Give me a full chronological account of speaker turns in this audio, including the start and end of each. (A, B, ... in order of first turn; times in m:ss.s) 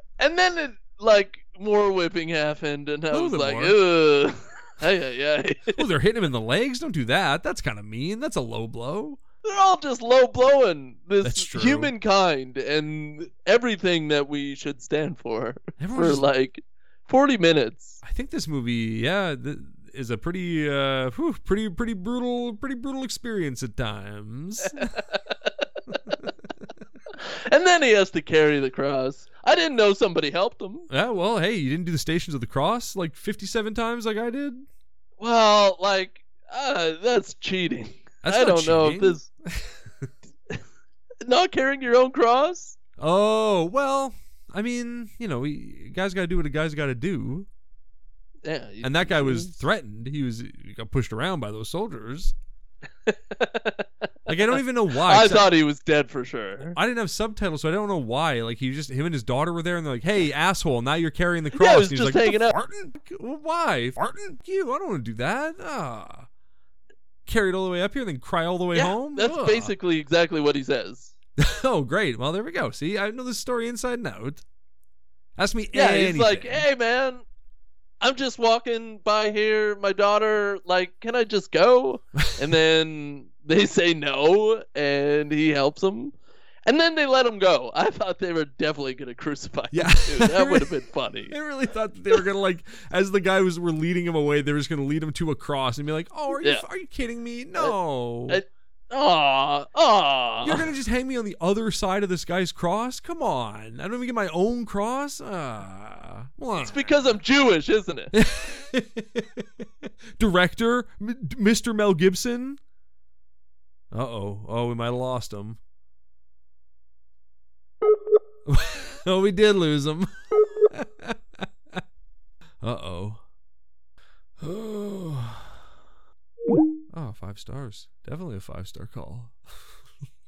0:00.2-0:05.8 A
0:03.1-0:03.8 B
0:05.8-0:09.2 B
0:09.4-0:18.0 A
0:11.2-0:11.9 B
0:15.8-0:16.2 B
0:18.0-0:24.9 B
0:24.8-0:25.5 A
0:27.2-0:30.9 A
0:30.9-0:34.6 B
0:35.2-0:39.3 A
0:38.2-0:40.1 B
0:41.2-0:42.8 A
0:43.0-0:47.5 B
0:48.4-0:49.5 A
0:48.8-0:52.3 B
0:53.0-0:53.9 A
0:54.3-0:55.5 B
0:54.9-0:56.8 A
0:56.7-1:06.3 B
1:01.5-1:02.6 A
1:07.2-1:09.7 B
1:08.7-1:11.1 A
1:11.4-1:14.4 B
1:15.4-1:16.6 B
1:15.7-1:17.2 A
1:18.0-1:31.3 A
1:29.7-1:30.7 B
1:31.3-1:38.4 B
1:38.3-1:40.6 A
1:40.4-1:47.1 B
1:46.5-1:48.1 A
1:48.1-1:52.6 B
1:53.9-1:55.6 B
1:58.4-2:01.8 B
2:02.6-2:03.2 B
2:04.4-2:05.6 B
2:06.9-2:09.6 B